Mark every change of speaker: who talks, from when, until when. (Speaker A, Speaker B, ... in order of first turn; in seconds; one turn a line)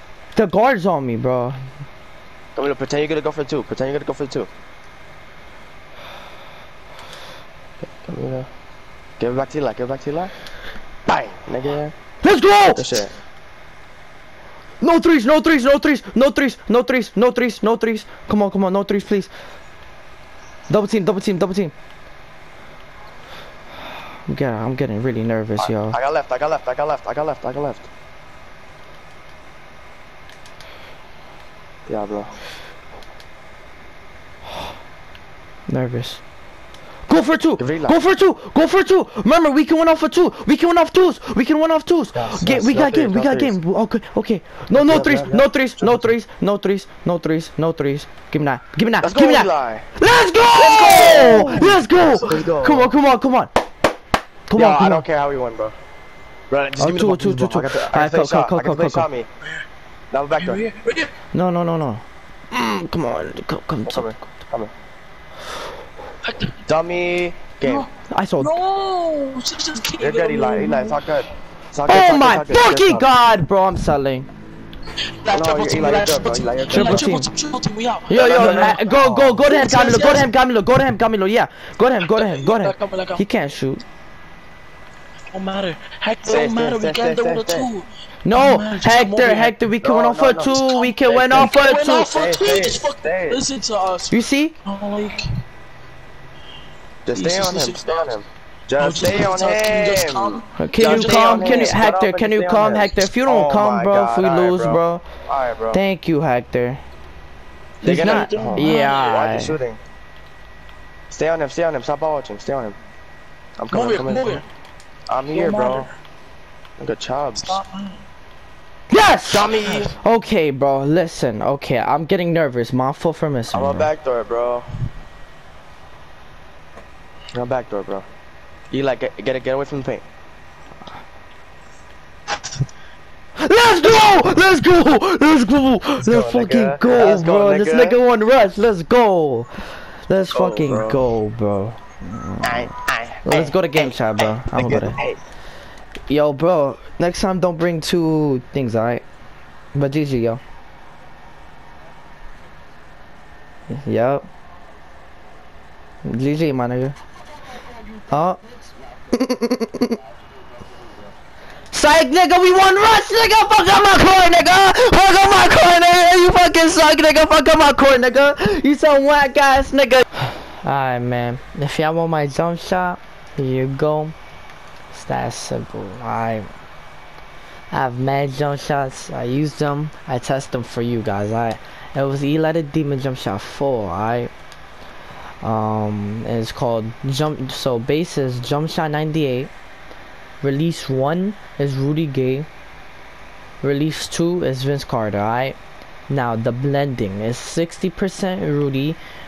Speaker A: 0.3-1.7
Speaker B: 2.5-4.5
Speaker B: 7.8-8.5
Speaker B: 9.2-10.3
Speaker B: 11.1-11.9
Speaker A: 12.2-12.9
Speaker B: 12.6-13.1
Speaker A: 14.8-19.3
Speaker A: 20.7-21.7
Speaker A: 24.2-26.0
Speaker B: 25.6-27.9
Speaker B: 31.9-32.3
Speaker A: 35.7-36.2
Speaker A: 37.1-53.5
Speaker B: 37.6-38.0
Speaker B: 42.1-43.6
Speaker B: 44.7-46.1
Speaker B: 49.0-49.9
Speaker B: 50.5-52.9
Speaker C: 51.0-51.7
Speaker A: 54.5-55.0
Speaker B: 54.5-55.8
Speaker B: 56.5-59.3
Speaker A: 56.8-59.1
Speaker B: 60.1-60.6
Speaker C: 60.4-61.1
Speaker A: 61.3-64.1
Speaker B: 63.9-64.7
Speaker C: 66.2-66.5
Speaker B: 66.7-67.9
Speaker C: 67.6-71.0
Speaker A: 68.1-68.5
Speaker B: 70.0-73.1
Speaker A: 71.9-74.3
Speaker C: 75.2-80.3
Speaker B: 75.3-77.1
Speaker A: 76.7-77.3
Speaker A: 78.1-83.8
Speaker B: 78.1-79.4
Speaker C: 82.0-83.2
Speaker C: 85.3-89.6
Speaker B: 86.2-87.7
Speaker A: 88.2-92.1
Speaker B: 89.8-93.4
Speaker C: 90.6-94.1
Speaker A: 94.1-94.5
Speaker C: 94.6-95.4
Speaker B: 97.0-105.8
Speaker C: 97.1-98.0
Speaker C: 98.8-101.8
Speaker A: 100.6-105.0
Speaker A: 105.7-106.8
Speaker C: 107.8-109.0
Speaker B: 107.8-109.8
Speaker A: 107.8-109.6
Speaker B: 111.1-112.8
Speaker B: 113.6-114.4
Speaker C: 113.7-114.4
Speaker B: 115.1-115.9
Speaker C: 115.3-115.9
Speaker B: 116.8-117.6
Speaker C: 117.4-118.0
Speaker A: 118.9-123.9
Speaker B: 119.3-119.9
Speaker B: 123.5-124.7
Speaker B: 127.3-128.1
Speaker B: 128.7-130.0
Speaker A: 133.4-142.7
Speaker B: 136.0-138.0
Speaker B: 140.3-141.0
Speaker B: 142.4-145.2
Speaker A: 143.2-145.0
Speaker A: 146.1-149.0
Speaker A: 149.7-150.4
Speaker A: 153.7-154.3
Speaker A: 156.0-157.0
Speaker A: 158.1-158.4
Speaker A: 159.1-159.9
Speaker A: 161.7-174.1
Speaker A: 174.9-176.5
Speaker A: 177.7-184.3
Speaker A: 185.4-189.5
Speaker A: 190.4-192.5
Speaker A: 193.6-195.6
Speaker A: 196.1-199.0